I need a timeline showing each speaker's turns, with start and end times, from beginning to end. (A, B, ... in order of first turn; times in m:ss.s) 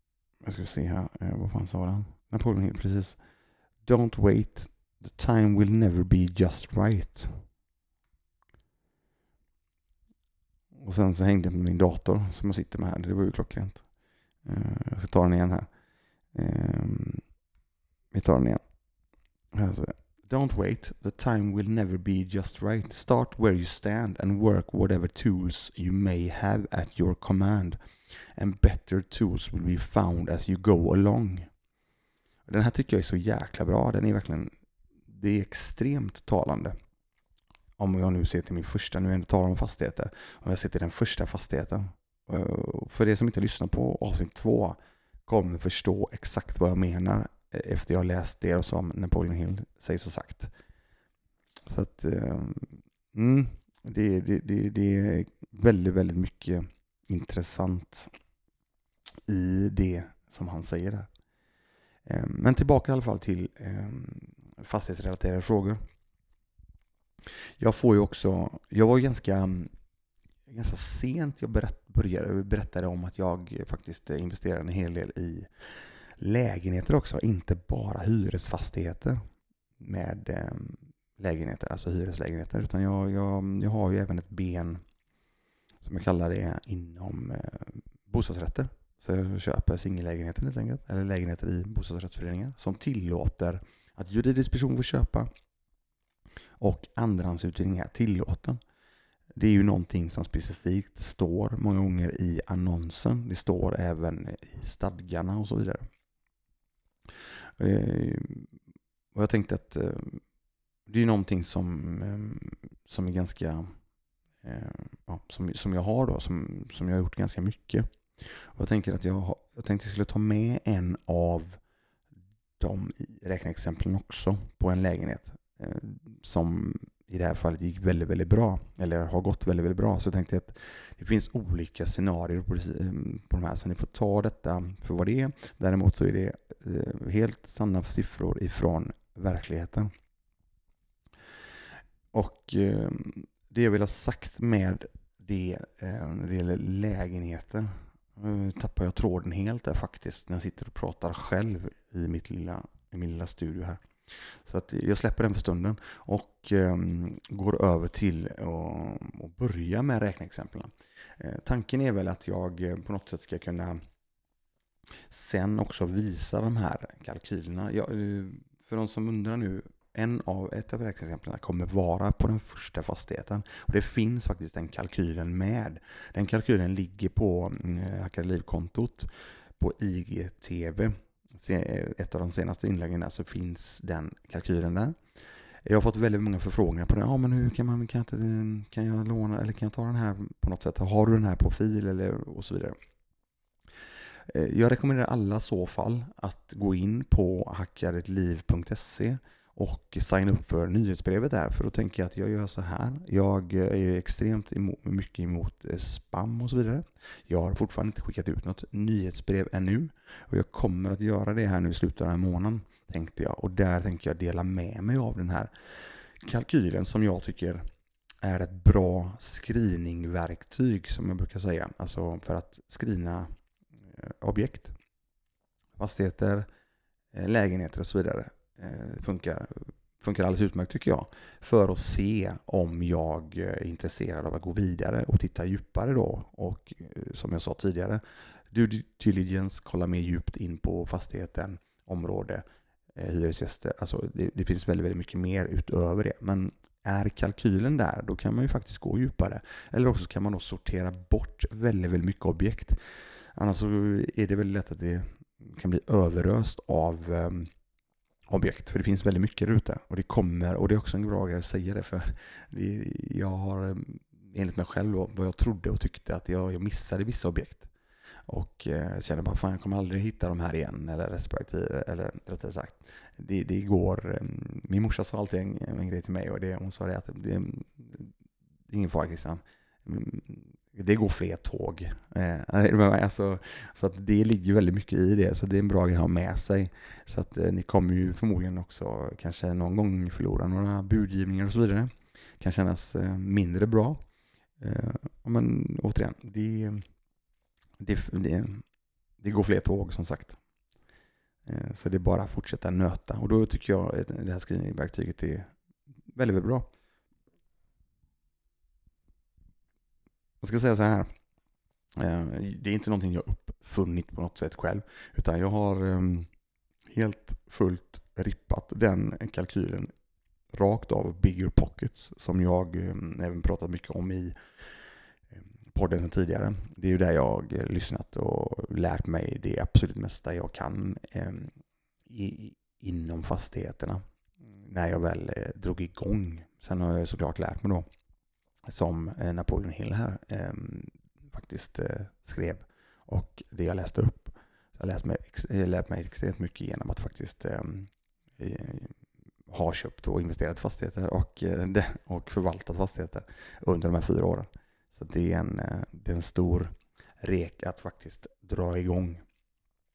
0:00.4-0:03.2 A
0:03.8-0:07.4 A
0:10.8-0:13.8 A
0:14.4-0:15.7 A
0:16.3-0:17.2 A
0:18.1-0:18.6 A
0:19.5-0:27.8 A
0:28.3-0:31.5 A
0:32.5-0:34.5 A
0:35.1-0:36.7 A
0:37.8-0:50.5 A
0:51.7-0:58.1 A
0:59.3-1:01.1 A
1:02.0-1:05.8 A
1:07.6-1:09.7 A
1:10.5-1:15.5 A
1:16.2-1:19.2 A
1:19.8-1:24.8 A
1:25.8-1:35.3 A
1:36.6-1:38.6 A
1:39.4-1:45.9 A
1:47.6-1:48.5 A
1:49.1-1:50.2 A
1:50.9-1:53.7 A
1:54.4-2:01.6 A
2:02.6-2:19.9 A
2:22.1-2:33.8 A
2:34.4-2:43.8 A
2:45.1-3:05.0 A
3:05.6-3:12.8 A
3:14.3-3:35.5 A
3:36.2-3:37.6 A
3:38.2-3:43.3 A
3:43.9-3:44.7 A
3:45.8-3:46.5 A
3:47.1-4:12.8 A
4:13.3-4:17.5 A
4:18.3-4:27.7 A
4:28.3-4:38.1 A
4:38.7-4:54.0 A
4:54.6-4:56.8 A
4:57.8-4:58.6 A
4:59.2-5:00.4 A
5:01.4-5:05.5 A
5:06.1-5:06.7 A
5:10.4-5:11.1 A
5:12.0-5:16.3 A
5:16.9-5:19.9 A
5:20.5-5:24.4 A
5:25.3-5:31.5 A
5:32.1-5:34.0 A
5:34.6-5:37.8 A
5:38.7-5:49.0 A
5:49.5-5:59.2 A